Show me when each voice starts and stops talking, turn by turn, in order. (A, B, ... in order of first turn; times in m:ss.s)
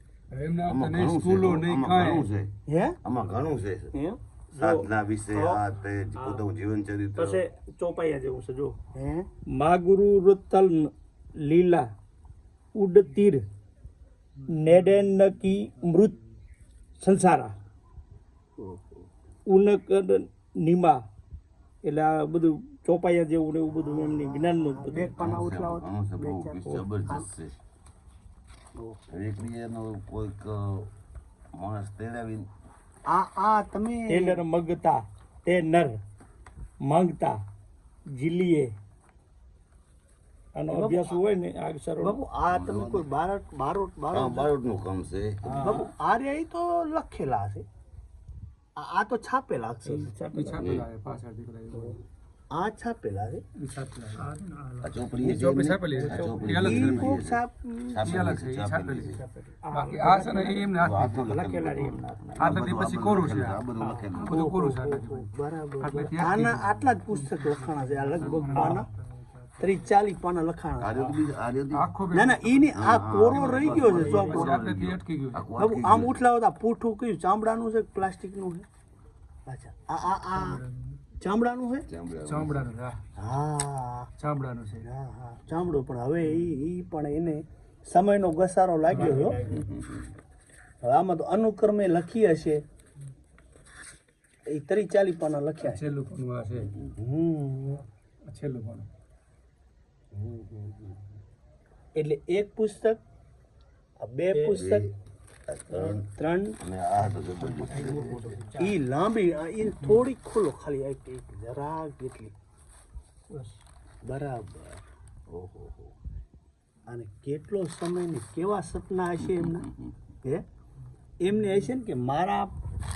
0:00.3-0:02.3 A
0:00.6-0:02.5 B
0:02.7-0:03.0 C
0:03.0-0:03.9 B
0:03.9-0:04.2 C
0:04.5-0:05.6 D
0:04.6-0:07.4 B
0:06.2-0:06.4 D
0:07.2-0:08.8 D
0:08.9-0:09.3 C
0:09.5-0:11.9 D
0:12.7-0:13.4 D
0:14.4-0:15.0 A
0:14.5-0:16.1 D
0:17.0-0:17.5 D
0:18.6-0:19.1 C
0:19.4-0:21.0 D
0:21.8-0:25.1 D
0:23.8-0:27.3 C
0:25.0-0:27.6 B
0:28.8-0:29.0 C
0:29.1-0:30.9 B
0:31.5-0:32.5 B
0:33.1-0:34.4 C
0:34.1-0:36.0 D
0:36.8-0:37.4 D
0:38.1-0:38.7 D
0:40.5-0:42.2 D
0:40.7-0:41.2 C
0:42.0-0:44.5 C
0:42.5-0:43.1 B
0:44.1-0:45.8 B
0:45.4-0:45.8 D
0:45.5-0:47.6 C
0:48.8-0:50.1 C
0:49.8-0:50.6 D
0:50.3-0:52.0 A
0:50.6-0:50.9 B
0:52.5-0:53.4 C
0:53.6-0:54.3 A
0:54.2-0:55.0 D
0:54.8-0:59.2 B
0:55.2-0:57.2 A
0:55.9-0:56.6 D
0:56.4-0:58.2 C
0:58.0-0:59.2 A
0:59.1-1:00.6 D
0:59.7-1:01.2 A
1:00.8-1:04.4 B
1:01.2-1:02.3 D
1:02.4-1:05.3 A
1:03.8-1:04.0 D
1:04.2-1:08.9 C
1:05.8-1:08.9 A
1:08.3-1:08.8 D
1:09.6-1:11.0 C
1:10.8-1:11.9 B
1:11.0-1:11.2 D
1:11.7-1:15.5 A
1:12.1-1:14.5 C
1:12.7-1:16.2 B
1:13.9-1:14.3 D
1:15.6-1:18.6 C
1:19.5-1:20.6 C
1:20.3-1:21.0 A
1:21.2-1:21.9 C
1:21.8-1:22.7 B
1:22.2-1:23.0 A
1:23.2-1:24.1 C
1:24.2-1:24.8 A
1:24.8-1:29.4 C
1:28.9-1:29.5 A
1:28.9-1:29.6 D
1:29.4-1:30.1 B
1:30.8-1:32.6 C
1:34.5-1:35.8 C
1:35.6-1:36.7 A
1:36.6-1:36.9 B
1:37.0-1:37.8 C
1:38.2-1:38.9 A
1:40.2-1:40.9 B
1:42.0-1:43.0 C
1:44.0-1:44.9 C
1:44.5-1:44.9 B
1:45.5-1:46.1 B
1:45.7-1:46.6 C
1:46.6-1:48.2 B
1:47.4-1:48.5 A
1:47.6-1:48.8 D
1:48.6-1:52.3 C
1:53.3-1:53.6 D
1:54.0-1:55.9 C
1:56.9-1:59.7 C
1:59.3-1:59.9 B
2:01.2-2:02.5 C